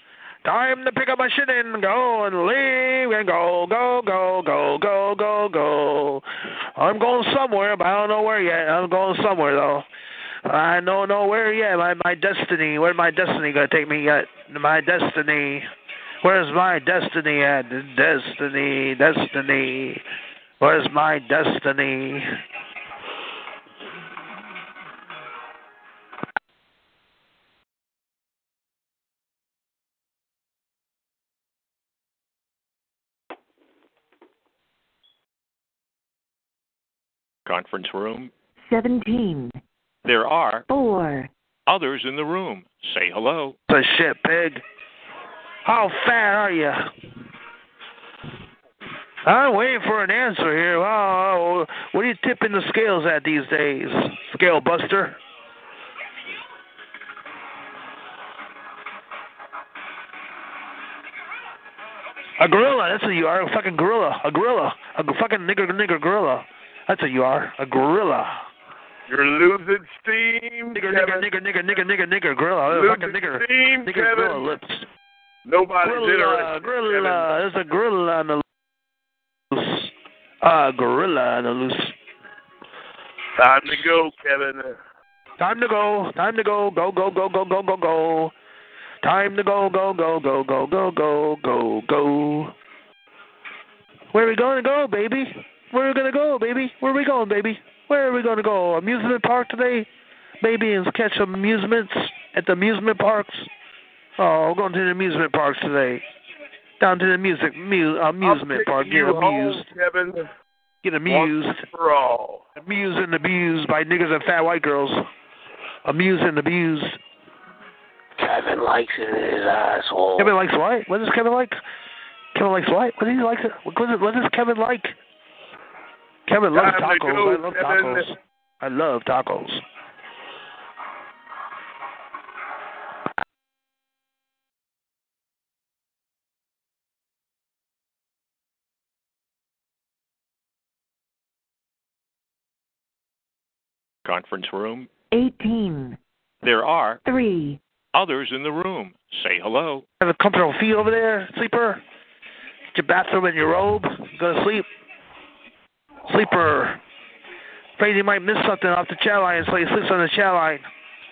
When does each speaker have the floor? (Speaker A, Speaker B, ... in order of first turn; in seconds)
Speaker A: 0.5-6.2, 6.8-9.9, 10.5-15.7, 16.2-20.0, 20.6-22.3, 43.7-44.6, 45.6-46.9, 49.3-55.2, 62.4-68.4, 70.7-74.9, 75.8-78.4, 79.5-79.9, 80.4-81.9, 85.4-88.3, 89.0-92.5, 94.1-99.9, 100.4-103.5, 104.2-106.0, 106.8-109.7, 110.8-111.6, 112.6-115.0, 115.9-117.0, 120.2-121.6, 122.3-125.0, 126.3-129.6, 150.0-151.8, 152.7-154.7, 156.1-156.8, 157.8-160.7
Speaker B: 37.5-38.3, 40.0-40.7, 41.7-43.6, 144.1-144.9, 146.4-147.0, 147.9-149.8
Speaker C: 38.6-39.6, 40.7-41.3, 145.1-146.0, 147.1-147.6
Speaker D: 69.1-71.3, 72.7-74.4, 75.5-77.3, 83.4-84.8, 108.2-110.3, 111.1-112.5, 126.5-128.1
Speaker E: 118.2-120.4